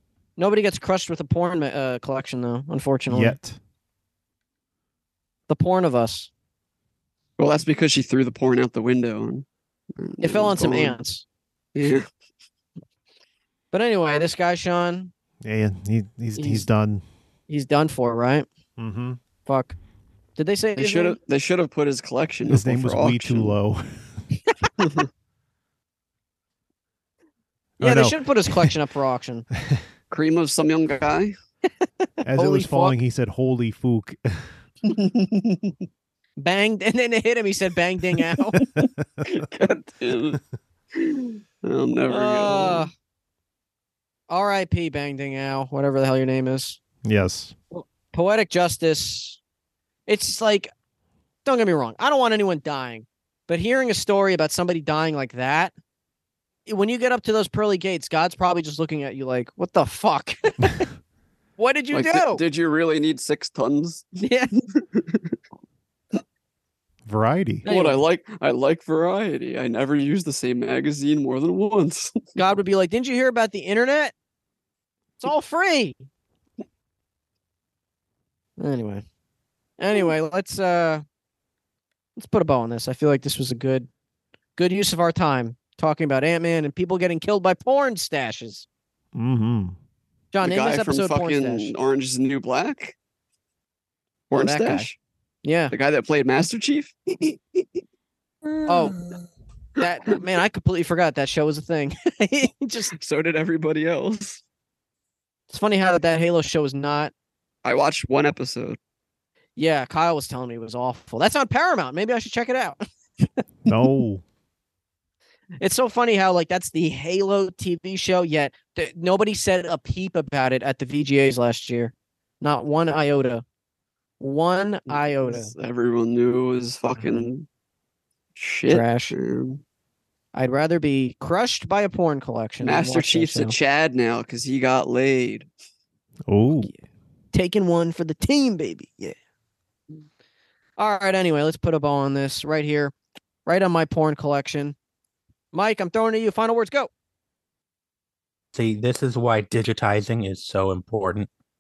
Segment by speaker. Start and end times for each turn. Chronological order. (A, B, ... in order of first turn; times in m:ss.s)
0:00.4-0:03.4 A
0:03.1-0:03.6 B
0:05.5-0:06.3 A
0:07.4-0:09.5 C
0:10.0-0:11.0 C
0:10.2-0:11.2 A
0:11.8-0:12.1 C
0:13.7-0:15.1 A
0:15.4-0:17.0 B
0:16.4-0:16.7 A
0:17.5-0:18.5 A
0:18.8-0:19.2 B
0:19.5-0:19.8 A
0:20.4-0:21.2 A
0:20.8-0:23.5 C
0:22.5-0:24.3 B
0:24.8-0:25.1 C
0:27.8-0:28.7 B
0:27.8-0:29.5 A
0:30.1-0:31.4 C
0:32.2-0:34.5 B
0:32.4-0:33.0 A
0:34.9-0:35.7 C
0:36.4-0:38.6 A
0:38.6-0:39.0 B
0:39.2-0:40.4 C
0:40.9-0:42.9 C
0:42.1-0:42.9 A
0:44.3-0:46.8 A
0:47.0-0:47.6 B
0:47.7-0:49.4 A
0:50.1-0:50.7 A
0:51.4-0:55.7 A
0:56.7-1:00.9 A
1:01.6-1:02.4 A
1:01.9-1:04.1 C
1:04.2-1:04.5 A
1:04.8-1:05.4 C
1:07.1-1:07.7 B
1:07.6-1:08.0 A
1:07.6-1:12.4 C
1:12.4-1:14.1 A
1:15.2-1:16.0 A
1:18.6-1:19.0 A
1:19.8-1:21.0 A
1:22.2-1:23.9 A
1:24.6-1:28.7 A
1:29.1-1:29.8 B
1:30.3-1:31.7 A
1:30.4-1:33.0 C
1:34.3-1:35.0 C
1:34.3-1:34.9 A
1:35.4-1:35.7 A
1:35.7-1:37.7 C
1:38.5-1:39.1 D
1:38.7-1:39.0 A
1:39.8-1:43.0 A
1:43.0-1:44.4 C
1:45.5-1:47.1 A
1:47.6-1:48.8 C
1:49.6-1:52.8 A
1:53.7-1:54.2 B
1:55.6-2:03.4 A
2:04.2-2:05.5 A
2:04.9-2:07.5 C
2:07.0-2:07.2 B
2:08.4-2:09.6 C
2:08.7-2:09.2 A
2:10.3-2:13.6 A
2:12.6-2:15.5 C
2:16.3-2:16.7 B
2:17.3-2:19.2 A
2:20.8-2:22.9 A
2:23.5-2:24.8 A
2:25.5-2:26.9 A
2:28.5-2:31.3 D